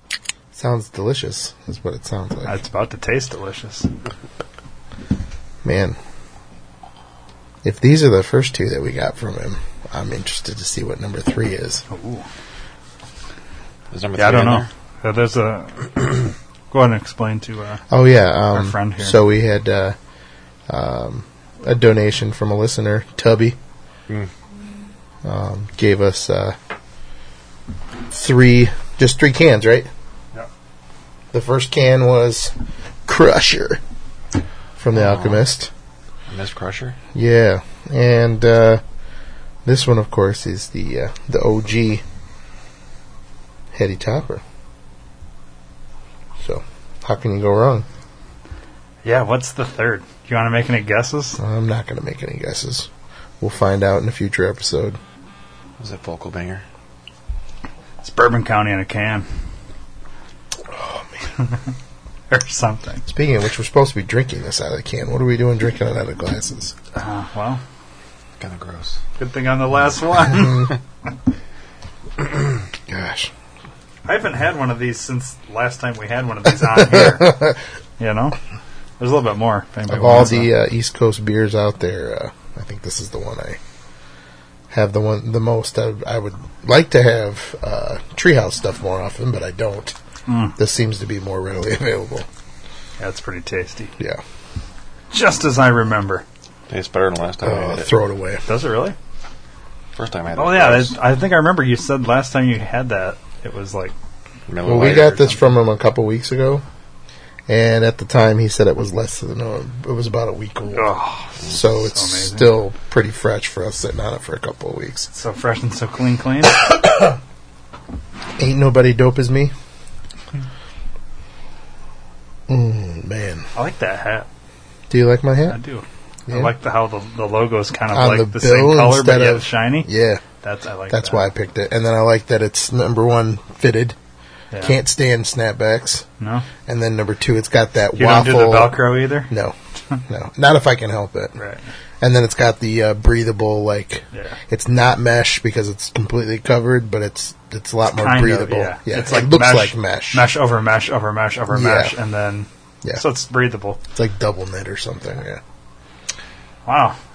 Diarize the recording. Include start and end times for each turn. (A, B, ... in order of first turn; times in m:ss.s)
0:00.5-0:02.5 A
0:02.5-0:03.9 B
0:05.6-0:06.0 A
0:07.6-0:11.8 A
0:11.9-0:12.3 B
0:13.9-0:14.7 C
0:14.2-0:16.1 B
0:16.7-0:17.8 B
0:17.9-0:20.0 A
0:18.5-0:19.2 B
0:20.7-0:23.6 A
0:25.2-0:26.6 A
0:28.1-0:29.9 A
0:31.3-0:32.5 A
0:33.0-0:33.8 A
0:34.8-0:35.7 A
0:34.9-0:35.4 C
0:36.3-0:37.0 C
0:37.1-0:38.8 A
0:39.6-0:42.0 A
0:43.7-0:44.4 A
0:46.4-0:47.9 A
0:49.0-0:51.4 B
0:51.4-0:52.9 A
0:53.4-0:55.0 A
0:55.8-0:56.6 C
0:58.0-0:59.3 B
1:00.7-1:01.1 A
1:02.3-1:03.0 B
1:03.1-1:06.8 A
1:07.0-1:07.6 B
1:08.4-1:09.0 C
1:09.2-1:10.8 B
1:10.3-1:10.7 A
1:12.9-1:13.3 A
1:14.0-1:17.4 B
1:16.5-1:17.6 A
1:18.0-1:18.4 B
1:19.0-1:20.5 B
1:19.9-1:23.6 A
1:24.7-1:30.0 A
1:30.3-1:30.6 B
1:30.6-1:32.3 A
1:33.0-1:33.9 B
1:35.1-1:36.2 B
1:36.7-1:37.9 C
1:37.4-1:38.4 A
1:38.5-1:39.0 B
1:40.0-1:41.0 C
1:40.4-1:43.9 B
1:44.5-1:45.4 C
1:44.6-1:46.6 A
1:47.5-1:50.9 A
1:50.7-1:52.5 B
1:51.5-1:55.1 A
1:55.1-1:56.6 B
1:58.4-1:59.5 A
2:02.5-2:03.5 A
2:03.6-2:04.3 B
2:04.9-2:05.6 A
2:05.5-2:09.9 B
2:06.3-2:06.5 A
2:07.9-2:10.2 A
2:10.4-2:11.3 B
2:10.9-2:14.0 A
2:14.6-2:16.0 A
2:16.2-2:16.5 B
2:16.7-2:19.6 A
2:18.0-2:19.3 B
2:20.1-2:21.4 A
2:21.4-2:21.7 B
2:22.0-2:30.3 A
2:27.9-2:33.8 B
2:31.5-2:32.0 A
2:34.0-2:35.4 A
2:36.7-2:37.0 B